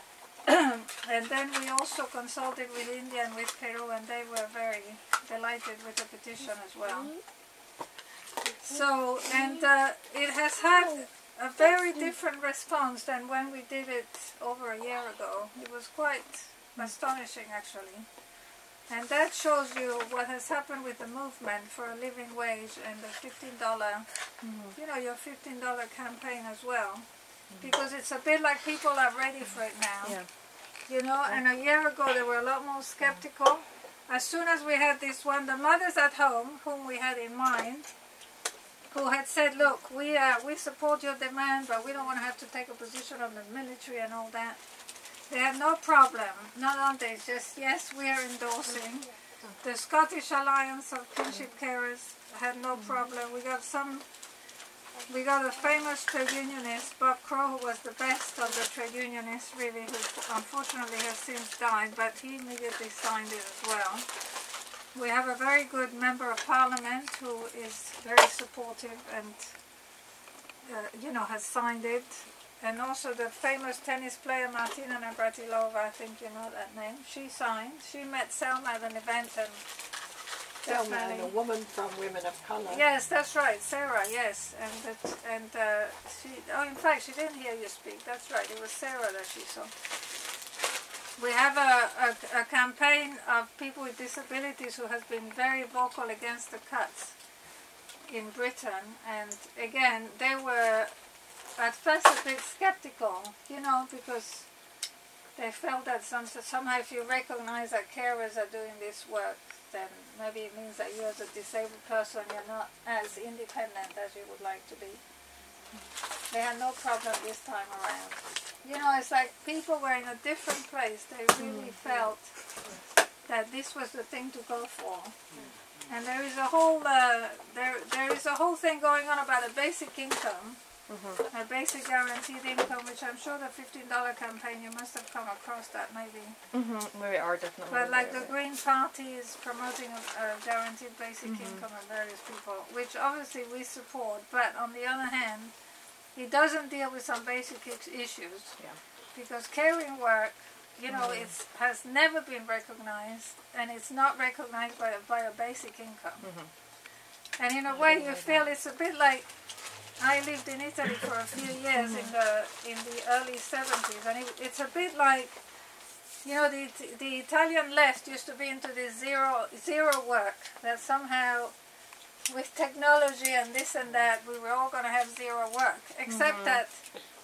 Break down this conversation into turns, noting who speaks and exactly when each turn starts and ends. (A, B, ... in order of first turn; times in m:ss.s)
0:00.5-0:07.2 A
0:08.6-0:18.1 A
0:18.9-0:24.1 A
0:24.4-0:24.8 B
0:24.8-0:27.1 A
0:27.6-0:30.2 A
0:30.0-0:30.3 B
0:30.9-0:37.9 A
0:38.9-0:44.6 A
0:45.3-0:54.0 A
0:52.8-0:53.0 B
0:55.1-1:04.1 A
1:04.9-1:09.5 A
1:10.6-1:19.6 A
1:20.6-1:21.3 A
1:20.6-1:22.8 C
1:22.7-1:29.7 A
1:31.2-1:37.2 A
1:38.1-1:40.9 A
1:41.6-1:44.5 A
1:45.4-1:55.0 A
1:56.3-2:02.3 A
2:01.4-2:01.8 B
2:03.3-2:05.2 A
2:05.9-2:10.6 A
2:10.9-2:11.2 B
2:11.3-2:16.4 A
2:16.5-2:18.4 B
2:17.7-2:25.5 A
2:21.2-2:21.7 B
2:26.2-2:28.6 A
2:29.2-2:36.2 A
2:30.9-2:31.3 B
2:36.2-2:36.5 B
2:37.4-2:39.3 A
2:37.7-2:38.5 B
2:40.0-2:45.4 A
2:41.8-2:42.1 B
2:46.2-2:51.5 A
2:52.3-2:56.8 A
2:56.1-2:56.6 B